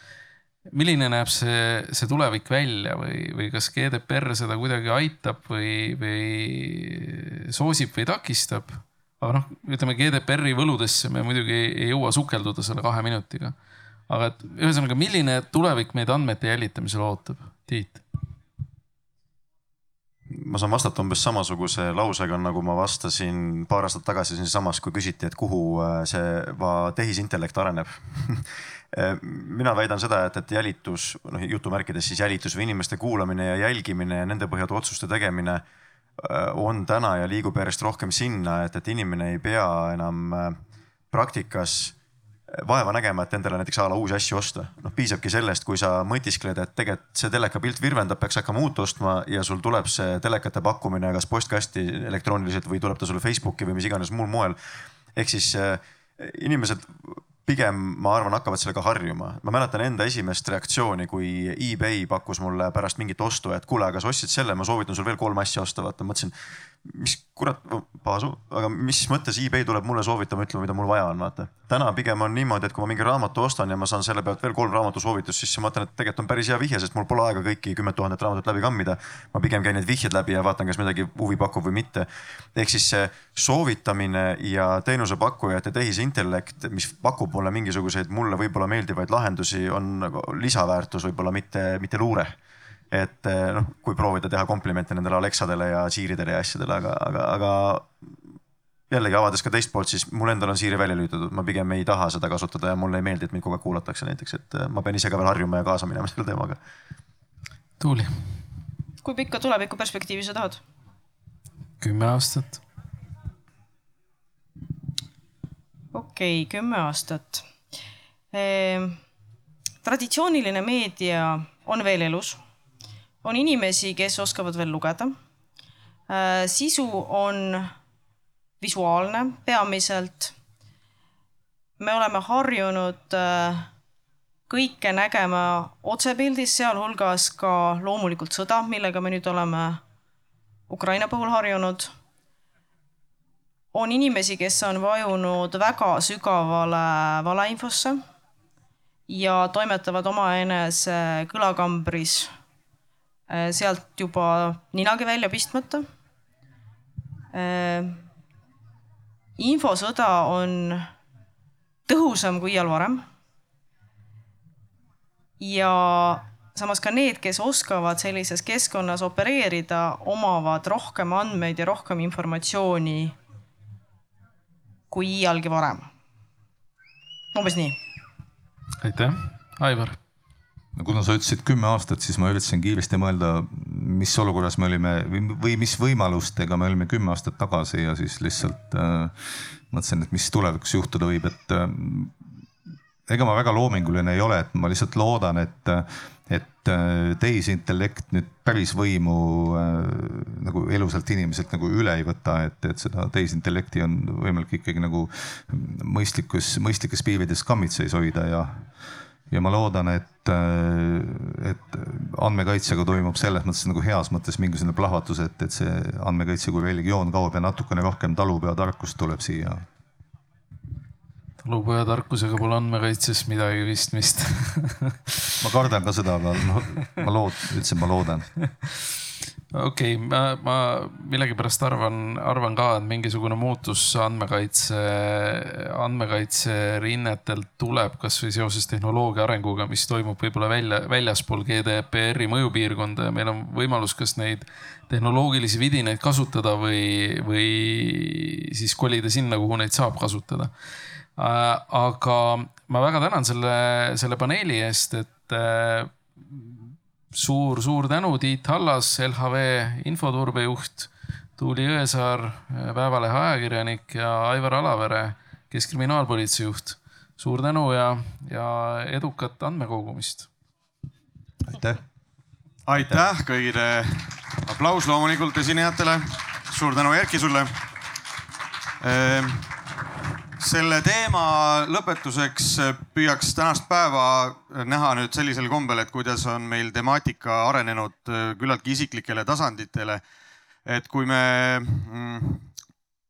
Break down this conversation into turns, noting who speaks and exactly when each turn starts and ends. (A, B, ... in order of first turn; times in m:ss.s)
0:00.7-0:13.6 A
0:14.1-0:18.0 A
0:20.3-0:35.6 B
0:36.2-0:40.6 B
0:41.1-0:42.0 B
0:42.5-0:54.6 B
0:55.2-1:32.4 B
1:32.9-1:37.9 B
1:38.9-1:46.6 B
1:47.8-1:48.1 A
1:49.0-1:50.6 C
1:51.8-1:52.6 A
1:55.9-1:57.4 C
1:58.3-1:59.0 C
1:59.8-2:02.4 C
2:03.2-2:05.2 C
2:06.1-2:07.7 C
2:08.6-2:10.3 C
2:11.8-2:13.7 C
2:14.5-2:19.8 C
2:20.7-2:21.9 C
2:23.7-2:28.0 C
2:29.1-2:32.3 C
2:33.3-2:35.9 C
2:37.3-2:38.0 C
2:39.4-2:40.9 C
2:41.9-2:43.0 C
2:45.4-2:53.2 C
2:54.9-2:55.9 C
2:57.3-2:57.8 C
2:58.8-3:00.0 A
3:00.8-3:09.2 D
3:09.7-3:12.2 D
3:13.1-3:28.7 D
3:29.3-3:39.7 D
3:41.4-3:45.0 A
3:45.4-3:48.3 D
3:49.5-4:10.5 A
4:11.2-4:16.6 A
4:17.1-4:30.3 A
4:31.5-4:31.8 D
4:32.7-4:37.5 E
4:38.8-4:39.5 E
4:40.4-4:50.0 E
4:50.7-4:52.5 E